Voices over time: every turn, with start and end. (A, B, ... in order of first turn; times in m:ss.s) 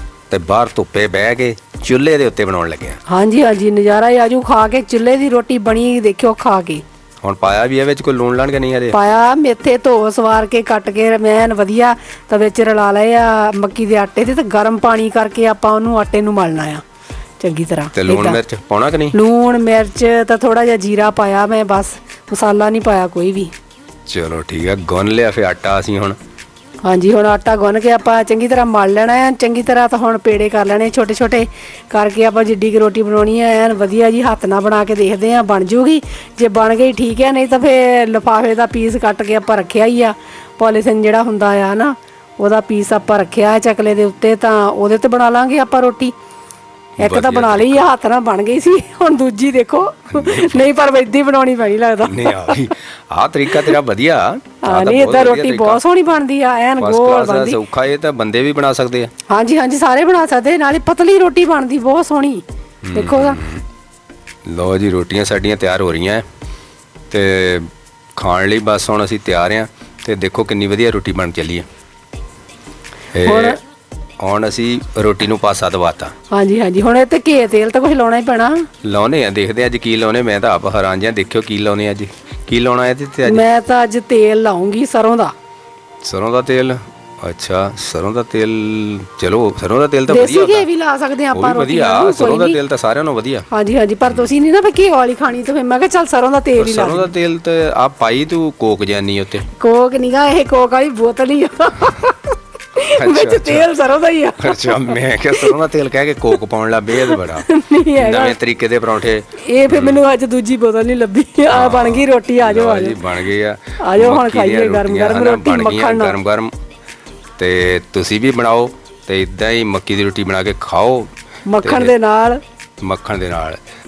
0:00.3-0:03.0 A
0:03.1-0:06.8 B
0:07.2-0:09.0 A
0:08.9-0:16.8 B
0:17.4-0:18.4 B
0:17.9-0:19.2 A
0:19.1-0:23.5 B
0:24.1-0:26.2 A
0:26.8-0:46.1 B
0:47.0-0:47.9 A
0:47.0-0:52.7 B
0:50.1-0:50.7 A
0:52.0-0:55.8 A
0:54.6-0:57.6 B
0:56.8-0:59.1 A
0:59.3-1:03.4 B
1:02.8-1:03.6 A
1:04.5-1:06.2 A
1:07.1-1:11.7 A
1:13.1-1:13.6 A
1:13.2-1:13.6 B
1:14.2-1:16.1 A
1:16.3-1:18.6 B
1:18.8-1:23.5 A
1:23.2-1:25.3 B
1:26.0-1:30.7 A
1:30.1-1:32.6 B
1:31.3-1:33.5 A
1:33.5-1:37.1 B
1:36.6-1:39.5 A
1:39.6-1:45.6 B
1:43.0-1:43.7 A
1:44.4-1:50.0 A
1:47.0-1:48.4 B
1:49.5-1:53.1 B
1:51.5-1:56.5 A
1:53.8-1:56.2 B
1:57.4-2:01.1 A
2:01.5-2:02.4 B
2:01.6-2:01.9 A
2:02.8-2:03.6 A